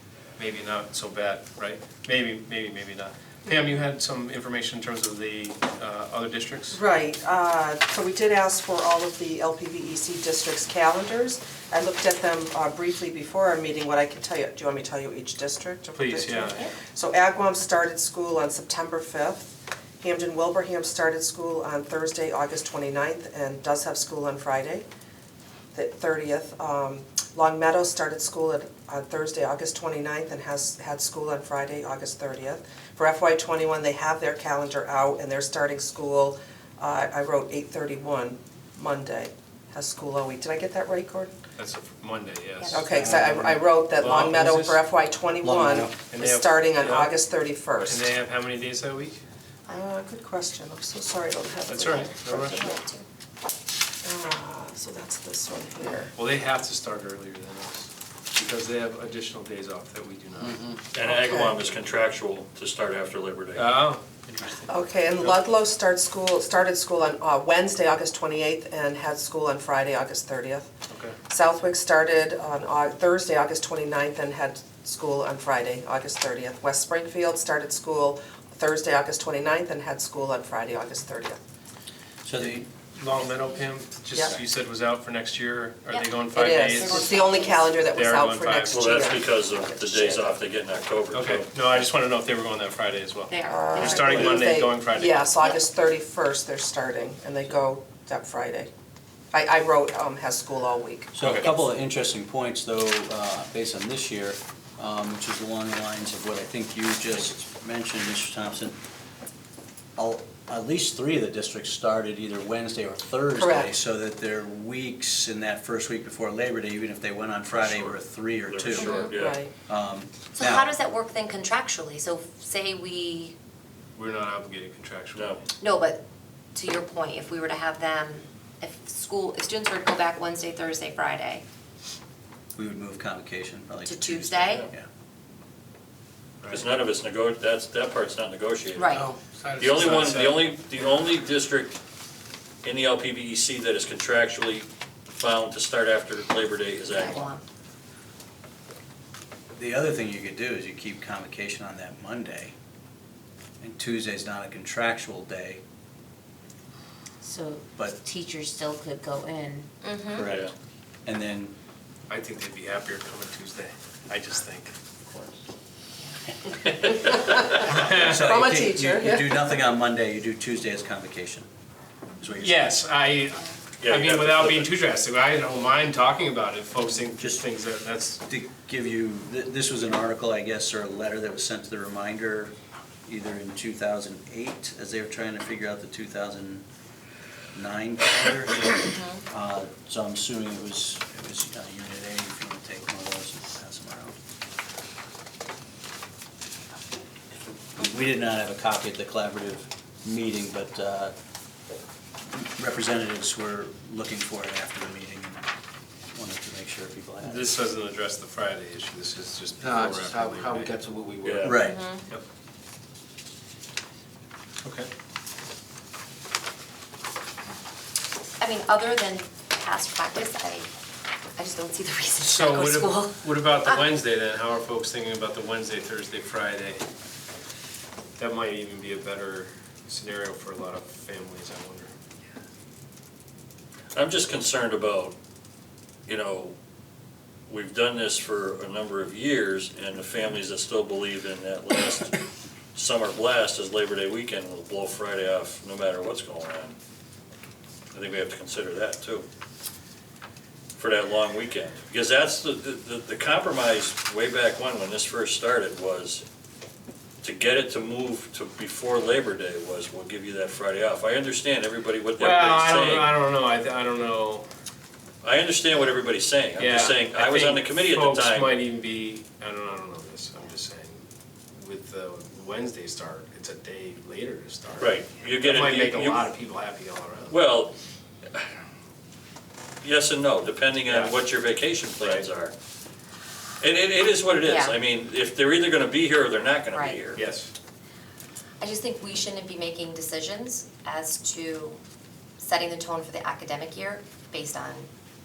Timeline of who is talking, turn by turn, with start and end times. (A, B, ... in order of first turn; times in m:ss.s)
0:00.4-0:06.8 A
0:06.7-0:24.9 B
0:16.0-0:16.6 A
0:25.7-0:41.3 B
0:41.6-0:44.8 A
0:42.6-0:42.9 C
0:42.7-0:48.0 B
0:42.9-0:43.4 D
0:45.4-0:45.9 D
0:45.5-0:45.9 E
0:46.1-0:47.1 A
0:47.9-0:49.2 A
0:49.7-0:52.8 B
0:51.7-0:52.7 A
0:51.9-0:53.1 C
0:54.0-0:56.1 B
0:56.1-1:00.6 A
1:00.9-1:03.8 F
1:01.1-1:01.5 B
1:03.6-1:05.4 A
1:04.7-1:10.7 B
1:10.9-1:11.2 A
1:11.3-1:21.4 B
1:22.2-1:22.7 E
1:22.4-1:27.1 A
1:25.9-1:27.8 C
1:26.3-1:30.4 B
1:27.9-1:29.0 A
1:28.7-1:31.7 F
1:31.1-1:35.3 A
1:33.3-1:34.5 C
1:33.5-1:38.7 B
1:39.3-1:41.1 B
1:41.1-1:48.8 E
1:41.2-1:41.5 F
1:50.0-1:59.0 E
1:53.4-1:53.7 B
1:57.6-1:59.4 F
1:58.8-1:59.2 C
1:58.8-1:59.5 B
1:59.7-2:00.7 E
2:00.4-2:03.4 C
2:04.0-2:05.4 A
2:05.2-2:05.4 F
2:05.6-2:06.0 C
2:06.6-2:11.4 C
2:12.6-2:14.9 E
2:13.9-2:14.7 C
2:16.4-2:16.7 A
2:16.5-2:19.0 F
2:18.7-2:19.1 C
2:18.9-2:20.3 D
2:19.6-2:21.8 F
2:19.9-2:20.3 A
2:22.6-2:27.3 F
2:26.9-2:27.4 C
2:29.6-2:32.5 E
2:33.6-2:35.6 E
2:37.2-2:39.7 G
2:39.8-2:40.3 C
2:40.1-2:40.5 E
2:40.3-2:40.5 F
2:41.1-2:41.5 E
2:42.1-2:44.7 A
2:46.0-2:47.2 C
2:47.2-2:49.3 B
2:47.4-2:51.5 E
2:52.2-2:52.8 E
2:52.4-2:58.2 A
2:53.8-2:54.7 F
2:57.2-2:57.4 E
2:58.3-3:02.5 E
3:03.1-3:06.6 E
3:07.5-3:14.2 E
3:08.9-3:09.2 C
3:17.8-3:21.1 E
3:22.2-3:25.5 E
3:26.1-3:27.5 E
3:27.2-3:30.7 A
3:29.6-3:31.7 D
3:31.2-3:31.6 F
3:31.4-3:31.8 E
3:31.6-3:32.0 C
3:34.6-3:34.9 A
3:38.4-3:40.7 C
3:41.4-3:43.8 C
3:42.2-3:46.8 A
3:48.2-3:51.9 A
3:53.9-3:55.2 F
3:56.1-3:56.6 F
3:57.5-4:02.2 F
4:02.8-4:06.8 F
4:07.9-4:09.3 F
4:10.8-4:16.2 F
4:17.2-4:23.1 F
4:22.2-4:24.5 A
4:25.2-4:28.6 F
4:26.6-4:37.4 A
4:34.8-4:36.3 F
4:37.3-4:37.8 F
4:39.8-4:42.5 F
4:40.9-4:41.2 A
4:42.0-4:42.3 A
4:43.6-4:47.3 F
4:44.4-4:44.8 C
4:46.7-4:47.0 C
4:47.2-4:47.5 A
4:48.6-4:51.8 C
4:52.4-4:54.9 C